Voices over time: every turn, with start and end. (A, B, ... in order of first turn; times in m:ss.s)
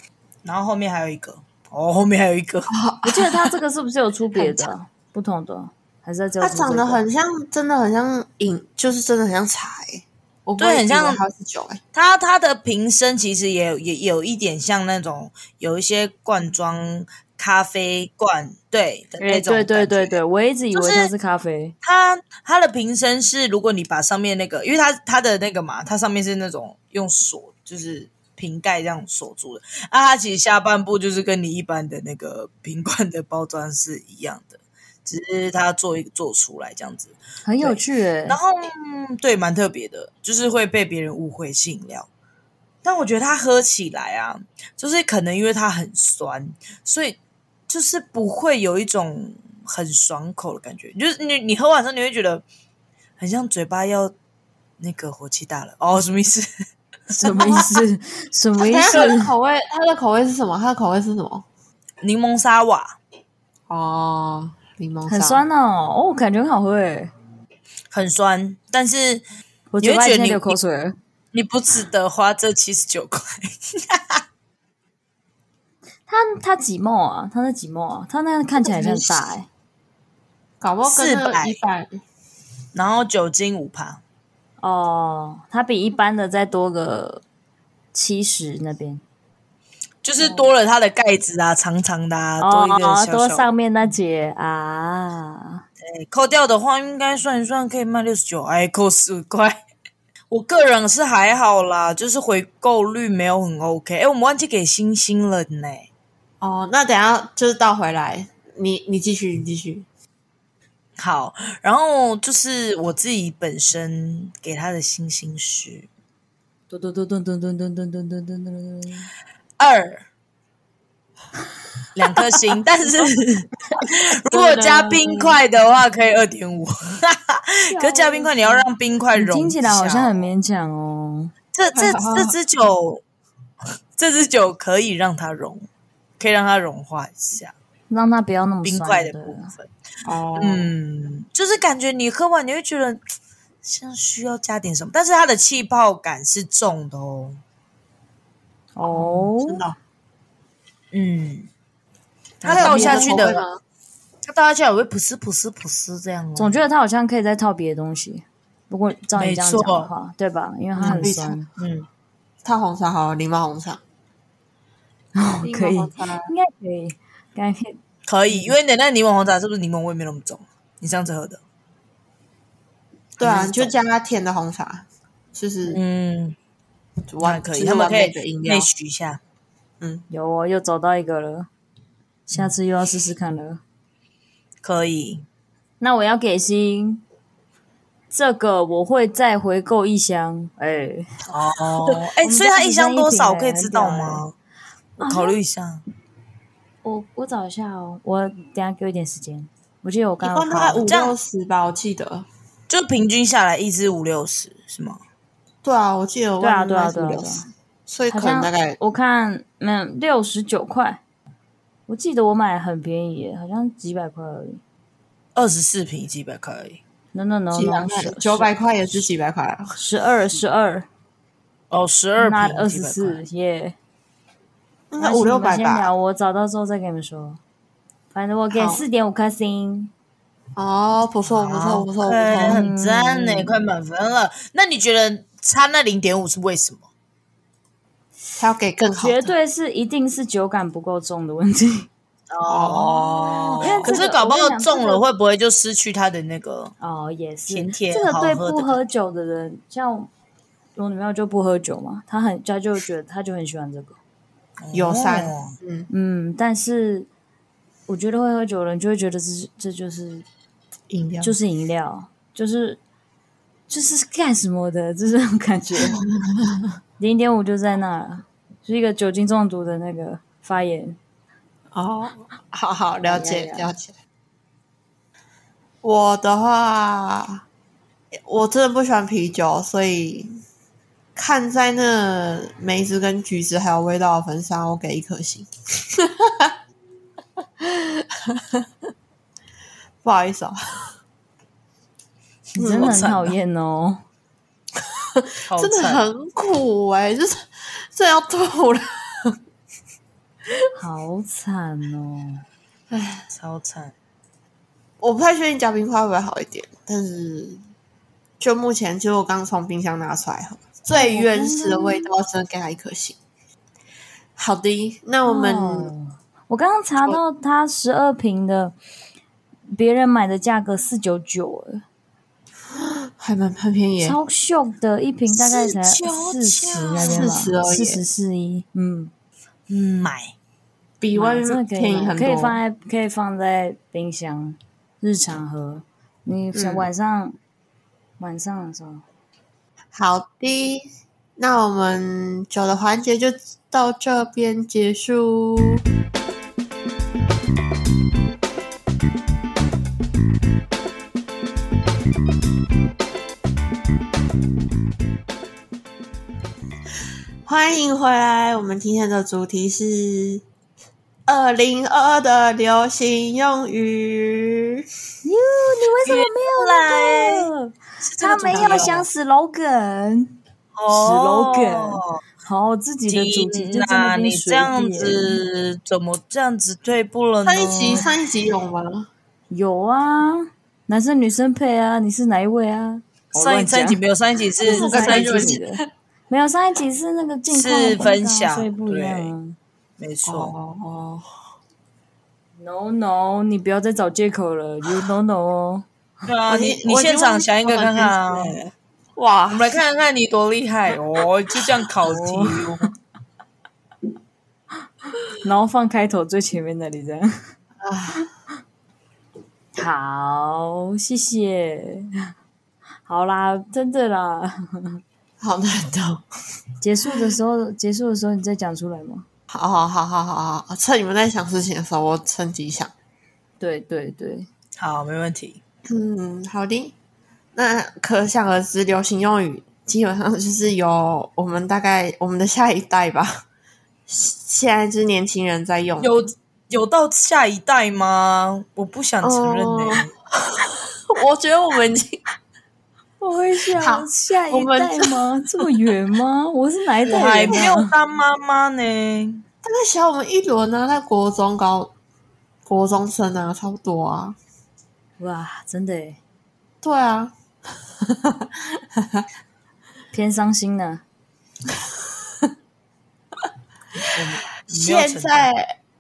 0:00.4-0:02.7 A
0:02.7-0:03.6 B
0:03.0-0:07.0 C
0:04.3-0:04.7 B
0:06.4-0:11.8 B
0:10.6-0:11.2 A
0:11.9-0:20.2 A
0:19.2-0:21.8 C
0:20.7-0:21.1 A
0:21.8-0:42.1 A
0:37.4-0:38.4 C
0:42.8-0:47.2 A
0:47.7-0:52.4 A
0:53.2-0:54.1 A
0:54.8-0:56.5 A
0:57.1-0:57.7 A
0:57.1-0:59.3 C
0:57.3-0:57.7 B
0:58.6-1:01.4 B
1:02.0-1:03.0 A
1:03.7-1:05.4 B
1:05.1-1:07.1 C
1:07.9-1:09.2 A
1:09.7-1:11.0 C
1:09.8-1:10.6 A
1:11.3-1:14.2 A
1:16.1-1:19.4 C
1:18.6-1:19.3 B
1:20.6-1:22.0 B
1:20.8-1:21.6 A
1:22.7-1:24.0 A
1:24.6-1:27.2 C
1:27.9-1:29.0 C
1:30.0-1:33.5 A
1:32.4-1:35.6 C
1:35.8-1:39.6 A
1:40.3-1:45.9 A
1:46.4-1:49.9 B
1:51.0-1:55.9 A
1:56.7-1:59.1 C
1:59.6-2:00.0 A
2:02.0-2:10.3 A
2:04.3-2:05.4 B
2:07.7-2:11.3 C
2:11.5-2:13.0 A
2:11.7-2:12.3 B
2:14.0-2:15.7 A
2:16.2-2:17.5 A
2:17.9-2:19.5 C
2:18.6-2:19.7 A
2:20.0-2:20.7 B
2:20.4-2:23.0 A
2:23.6-2:27.4 A
2:28.8-2:29.6 C
2:28.8-2:29.8 B
2:30.9-2:31.5 A
2:32.4-2:33.2 C
2:32.4-2:33.6 B
2:32.4-2:33.4 A
2:34.2-2:36.6 A
2:36.4-2:41.4 C
2:39.2-2:39.9 A
2:40.8-2:41.9 A
2:40.8-2:41.4 B
2:42.4-2:43.8 B
2:45.2-2:47.8 C
2:45.4-2:46.3 B
2:48.1-2:51.4 A
2:53.2-2:53.7 A
2:53.2-2:55.8 B
2:55.7-2:56.4 A
2:57.1-2:58.7 B
2:57.2-2:59.2 A
3:00.1-3:01.5 C
3:02.3-3:03.6 C
3:04.6-3:05.2 A
3:05.8-3:07.0 C
3:08.1-3:11.3 C
3:11.3-3:14.3 A
3:12.2-3:14.2 C
3:15.0-3:15.4 C
3:15.0-3:15.8 A
3:16.8-3:20.8 C
3:20.2-3:22.2 B
3:20.8-3:21.1 A
3:22.7-3:25.0 A
3:25.6-3:28.8 B
3:26.4-3:27.4 C
3:28.1-3:31.0 C
3:31.9-3:34.6 C
3:35.3-3:36.8 A
3:37.1-3:38.5 C
3:37.5-3:39.7 B
3:39.8-3:40.9 C
3:41.7-3:43.2 A
3:42.2-3:43.8 C
3:44.9-3:45.9 B
3:45.0-3:47.4 C
3:48.1-3:49.9 C
3:48.5-3:48.8 B
3:50.6-3:52.6 B
3:51.2-3:56.8 A
3:52.4-3:53.6 C
3:58.4-3:59.3 B
3:59.0-4:01.9 C
4:02.3-4:06.7 A
4:02.5-4:04.0 B
4:03.6-4:05.0 C
4:06.8-4:10.1 C
4:07.5-4:08.8 A
4:10.8-4:14.0 C
4:14.6-4:15.6 A
4:14.7-4:15.9 B
4:15.9-4:17.1 C
4:17.9-4:20.2 C
4:20.9-4:21.3 B
4:21.2-4:22.8 C
4:23.7-4:26.0 C
4:25.8-4:26.6 B
4:27.0-4:31.0 C
4:31.7-4:33.9 B
4:33.1-4:33.7 C
4:35.8-4:37.4 B
4:38.3-4:40.3 B
4:41.2-4:46.5 B
4:47.6-4:48.6 B
4:50.0-4:50.9 B
4:52.6-4:54.0 C
4:52.6-4:52.9 B
4:52.7-4:53.3 A
4:54.8-4:59.3 B
4:55.5-4:56.0 A
5:00.8-5:02.4 C
5:02.9-5:03.3 B
5:03.3-5:03.9 A
5:05.0-5:07.6 B
5:08.4-5:13.2 B
5:11.0-5:12.0 C
5:14.4-5:15.9 B
5:15.2-5:18.8 C
5:19.7-5:21.8 C
5:22.8-5:24.2 B
5:24.0-5:29.1 C
5:25.3-5:27.3 A
5:27.0-5:28.0 B
5:29.7-5:30.3 A
5:31.0-5:32.6 B
5:31.2-5:37.4 C
5:36.5-5:36.9 B
5:38.2-5:39.0 C
5:39.9-5:40.8 B
5:41.4-5:45.8 B
5:57.4-6:00.4 B
6:01.3-6:04.8 B
6:05.2-6:10.4 C
6:06.0-6:07.5 A
6:08.0-6:09.1 A
6:08.5-6:08.9 B
6:10.8-6:12.2 A
6:10.9-6:15.4 C
6:13.1-6:18.0 A
6:17.4-6:19.1 B
6:19.5-6:24.0 C
6:23.4-6:25.6 A
6:24.6-6:29.6 C
6:24.6-6:25.9 B
6:27.5-6:29.3 A
6:30.0-6:30.5 A
6:30.2-6:31.3 B
6:32.6-6:35.8 C
6:36.3-6:38.7 A
6:36.5-6:38.6 B
6:39.2-6:39.8 B
6:39.5-6:42.9 A
6:42.0-6:42.8 C
6:45.3-6:47.5 C
6:47.8-6:48.3 B
6:49.8-6:52.3 C
6:53.1-6:55.0 C
6:55.4-6:56.2 B
6:56.8-6:59.2 C
6:59.5-7:02.9 B
7:03.6-7:04.5 C
7:04.8-7:05.6 A
7:05.9-7:06.9 B
7:07.6-7:13.4 B
7:14.1-7:16.2 B
7:16.0-7:20.1 A
7:19.2-7:22.2 B
7:23.2-7:27.9 C
7:23.8-7:25.2 B
7:27.1-7:29.4 A
7:29.6-7:31.9 B
7:32.7-7:34.4 B
7:35.2-7:36.2 C
7:36.8-7:37.3 B
7:38.1-7:39.2 B
7:40.1-7:41.0 C
7:44.1-7:45.5 A
7:44.7-7:45.7 B